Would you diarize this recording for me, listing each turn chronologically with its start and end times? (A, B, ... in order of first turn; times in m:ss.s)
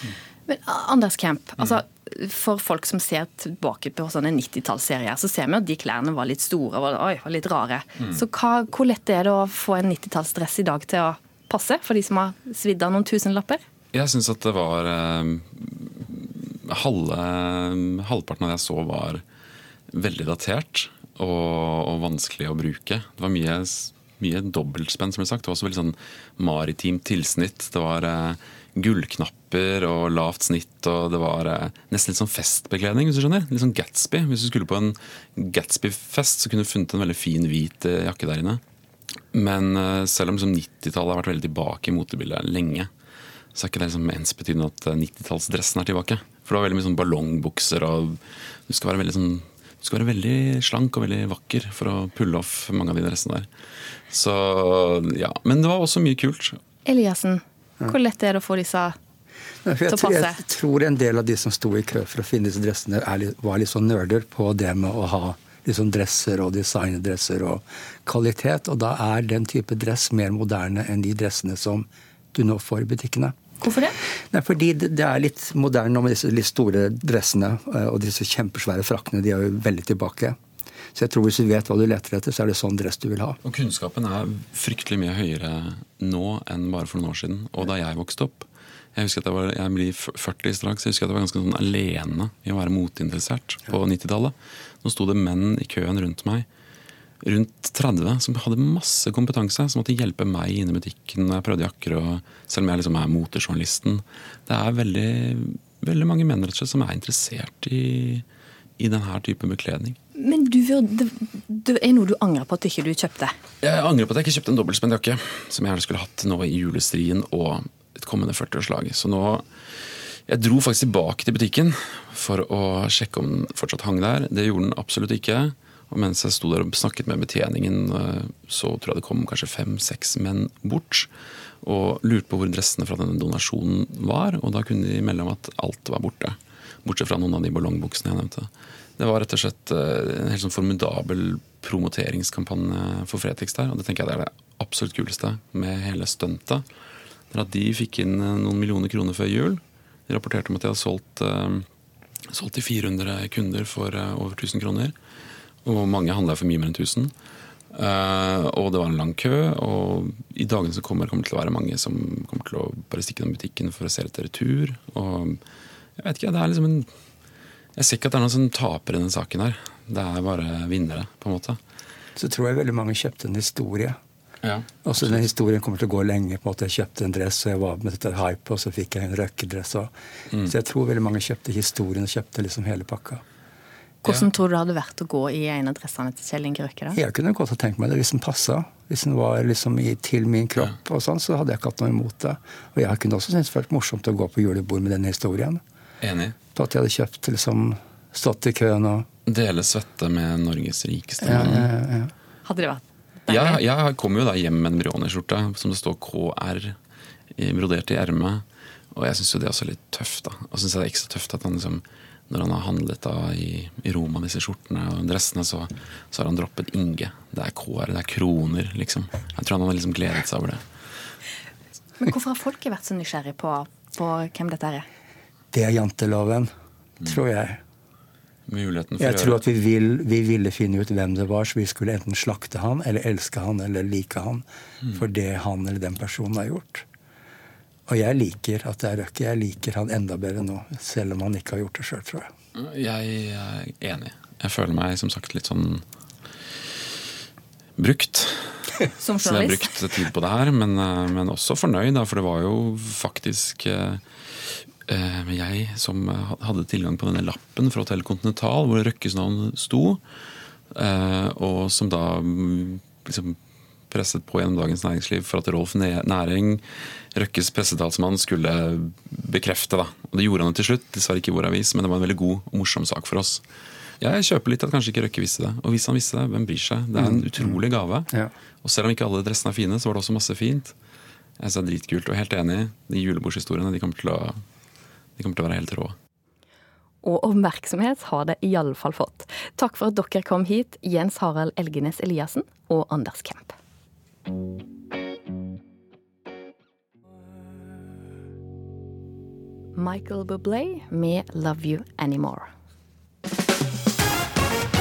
0:00.5-0:13.6 A
0:13.9-0:19.2 B
0:19.9-0:38.6 B
0:39.3-0:42.9 B
0:43.5-0:53.5 B
0:54.1-0:56.6 B
0:56.8-0:59.0 A
0:59.6-1:13.3 C
0:59.9-1:00.4 A
1:13.6-1:14.0 A
1:14.0-1:20.4 C
1:20.9-1:23.4 C
1:23.4-1:36.5 B
1:37.2-1:48.2 B
1:48.8-1:50.0 B
1:50.2-1:53.3 A
1:53.6-1:59.4 B
2:00.3-2:11.1 B
2:11.6-2:26.6 B
2:27.3-2:31.7 B
2:32.3-2:34.9 B
2:35.6-2:37.1 B
2:37.7-2:45.4 B
2:46.0-2:46.9 B
2:47.8-2:51.6 B
2:52.2-2:54.0 C
2:54.4-2:55.3 B
2:54.8-3:03.2 C
3:04.0-3:07.0 A
3:06.9-3:15.6 C
3:16.0-3:16.3 B
3:16.5-3:19.1 C
3:19.2-3:21.7 B
3:21.2-3:22.1 C
3:22.4-3:23.6 A
3:23.3-3:26.8 B
3:27.3-3:40.6 B
3:42.0-3:44.8 A
3:45.5-3:46.5 C
3:47.0-3:47.6 C
3:48.5-3:49.4 B
3:49.0-3:56.8 C
3:57.9-4:02.3 C
4:02.5-4:05.8 B
4:07.8-4:08.7 B
4:09.0-4:09.7 A
4:09.2-4:20.0 B
4:20.7-4:23.4 B
4:23.9-4:33.4 B
4:34.0-4:38.1 B
4:36.9-4:37.6 C
4:38.6-4:40.7 B
4:41.4-4:44.4 B
4:45.2-4:46.0 B
4:47.0-4:53.5 A
4:59.7-5:02.5 A